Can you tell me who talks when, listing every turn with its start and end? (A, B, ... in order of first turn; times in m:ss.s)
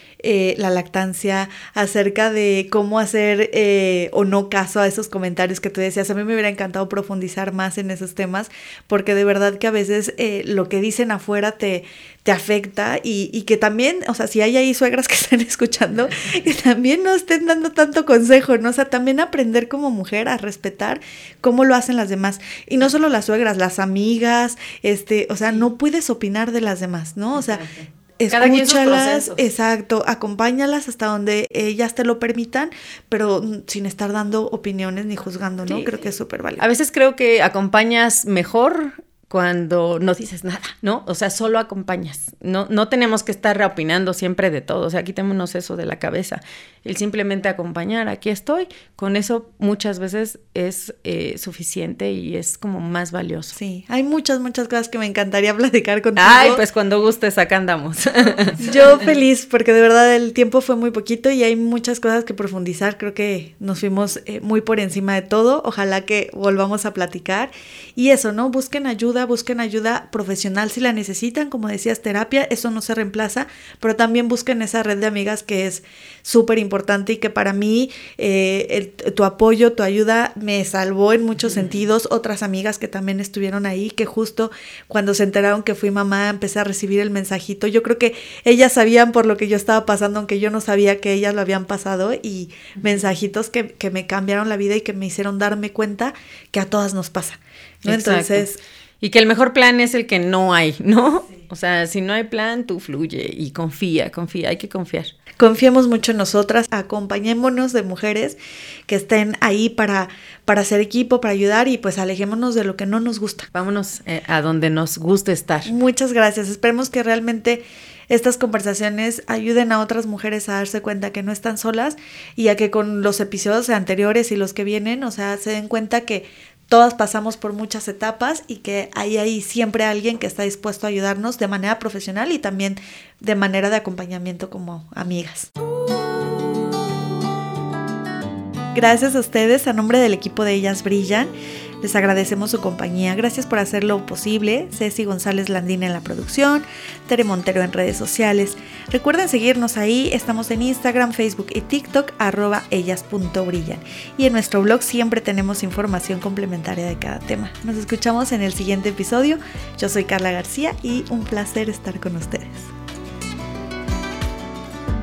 0:00.2-0:27.7 A
0:28.2-0:36.6 A
0:28.3-0:29.4 B
0:36.6-0:53.6 B
0:53.6-0:56.6 A
0:56.2-0:59.1 B
0:58.6-1:38.6 A
1:37.8-1:38.5 B
1:39.0-1:45.1 B
1:45.4-1:48.4 A
1:48.9-1:53.5 A
1:53.5-1:55.7 B
1:55.7-2:15.5 A
2:18.7-2:42.7 A